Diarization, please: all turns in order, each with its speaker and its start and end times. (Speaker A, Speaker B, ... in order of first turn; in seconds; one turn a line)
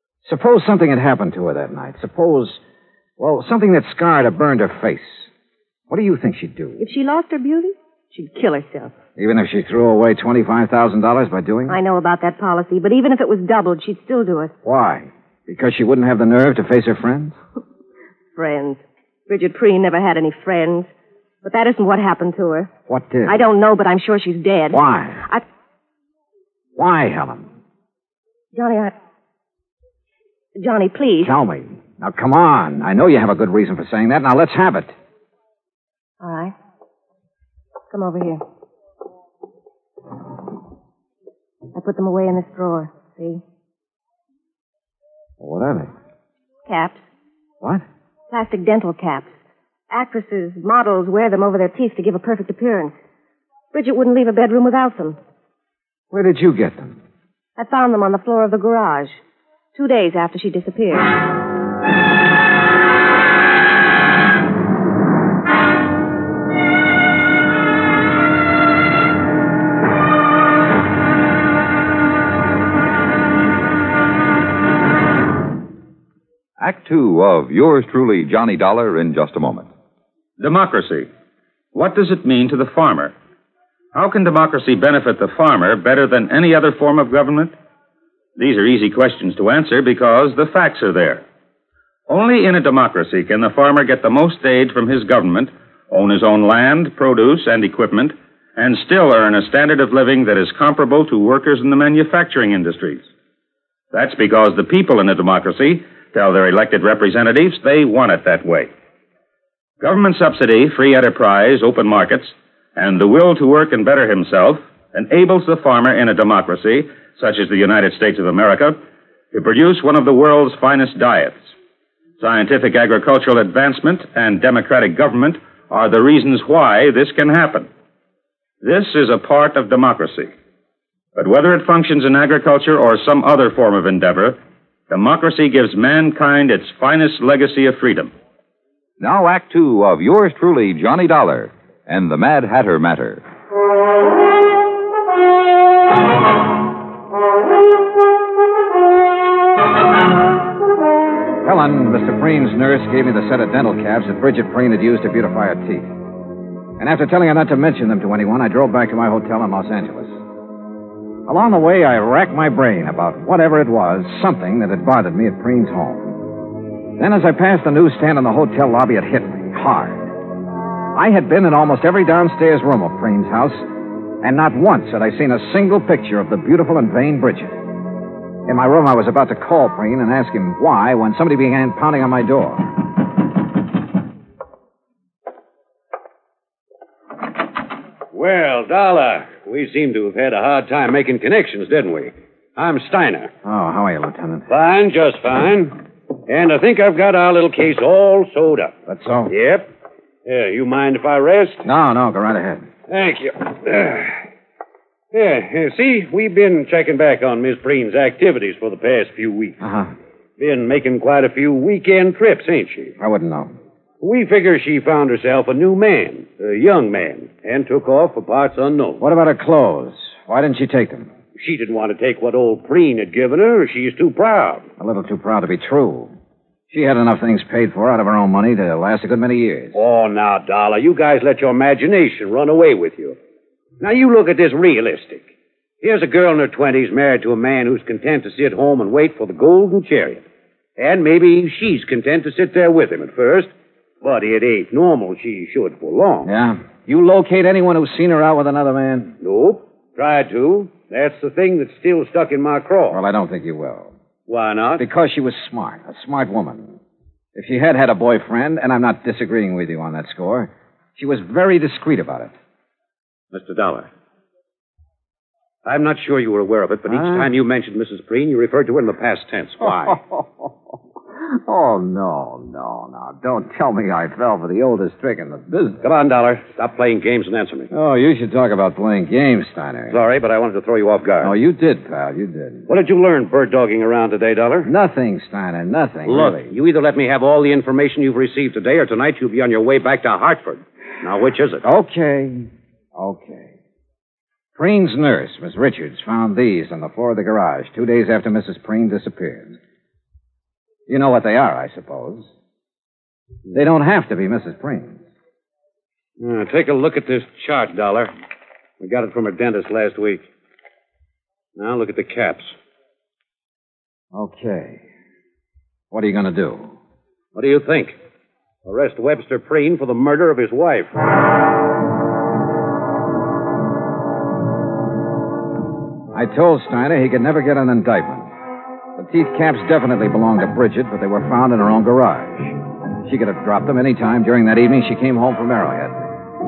Speaker A: 0.2-2.6
Speaker A: 3.2-5.3
Speaker A: 5.9-6.8
Speaker B: 6.8-8.9
Speaker A: 9.2-11.8
Speaker B: 11.7-14.5
Speaker A: 14.6-17.4
Speaker B: 18.4-20.9
Speaker B: 21.4-22.7
Speaker A: 22.9-23.4
Speaker B: 23.2-25.4
Speaker A: 24.7-25.2
Speaker A: 26.8-27.5
Speaker B: 28.5-28.9
Speaker B: 30.6-31.3
Speaker A: 31.2-34.9
Speaker B: 36.2-36.5
Speaker B: 37.9-38.4
Speaker B: 41.7-43.4
Speaker A: 45.4-45.9
Speaker B: 46.7-47.1
Speaker B: 48.3-49.3
Speaker B: 49.9-52.9
Speaker B: 53.7-55.2
Speaker A: 56.1-57.0
Speaker B: 57.6-59.2
Speaker B: 59.7-61.1
Speaker C: 76.6-79.7
Speaker D: 80.4-81.1
Speaker D: 81.7-83.1
Speaker D: 83.9-87.5
Speaker D: 88.3-91.2
Speaker D: 92.1-103.1
Speaker D: 103.9-108.7
Speaker D: 109.8-118.8
Speaker D: 119.3-121.5
Speaker D: 122.2-127.7
Speaker D: 128.6-130.3
Speaker D: 131.1-138.1
Speaker C: 139.0-143.2
Speaker A: 151.4-155.9
Speaker A: 156.8-160.2
Speaker A: 161.3-166.2
Speaker A: 167.0-170.1
Speaker A: 170.9-177.6
Speaker A: 178.4-182.8
Speaker E: 188.1-193.3
Speaker A: 193.4-194.5
Speaker E: 194.5-198.7
Speaker A: 198.8-199.3
Speaker E: 199.3-199.7
Speaker E: 200.2-201.6
Speaker A: 201.6-202.7
Speaker E: 202.9-204.2
Speaker E: 205.1-209.6
Speaker A: 209.6-209.9
Speaker E: 210.4-212.9
Speaker A: 213.0-213.5
Speaker E: 214.0-219.0
Speaker A: 219.0-221.1
Speaker E: 221.3-224.6
Speaker A: 224.8-226.1
Speaker A: 226.7-229.8
Speaker E: 229.7-233.2
Speaker E: 233.8-235.3
Speaker E: 235.8-240.2
Speaker E: 240.8-243.5
Speaker E: 244.0-246.3
Speaker A: 246.2-249.2
Speaker E: 249.2-253.0
Speaker A: 252.9-253.9
Speaker E: 254.3-254.8
Speaker A: 254.8-256.8
Speaker A: 257.3-262.3
Speaker E: 263.3-263.9
Speaker E: 265.6-270.0
Speaker A: 266.9-267.3
Speaker A: 269.6-270.5
Speaker A: 271.2-275.8
Speaker E: 275.8-277.7
Speaker A: 277.7-280.0
Speaker E: 279.9-281.3
Speaker A: 281.2-282.7
Speaker E: 282.7-284.7
Speaker A: 284.6-286.5
Speaker E: 286.1-291.6
Speaker A: 291.6-293.5
Speaker A: 294.6-299.6
Speaker A: 300.9-302.3
Speaker A: 303.5-305.0
Speaker E: 306.2-308.1
Speaker E: 308.8-310.2
Speaker E: 311.6-312.5
Speaker A: 314.1-314.8
Speaker A: 315.9-316.7
Speaker E: 317.3-317.9
Speaker E: 318.6-321.0
Speaker A: 326.1-328.3
Speaker A: 328.9-336.1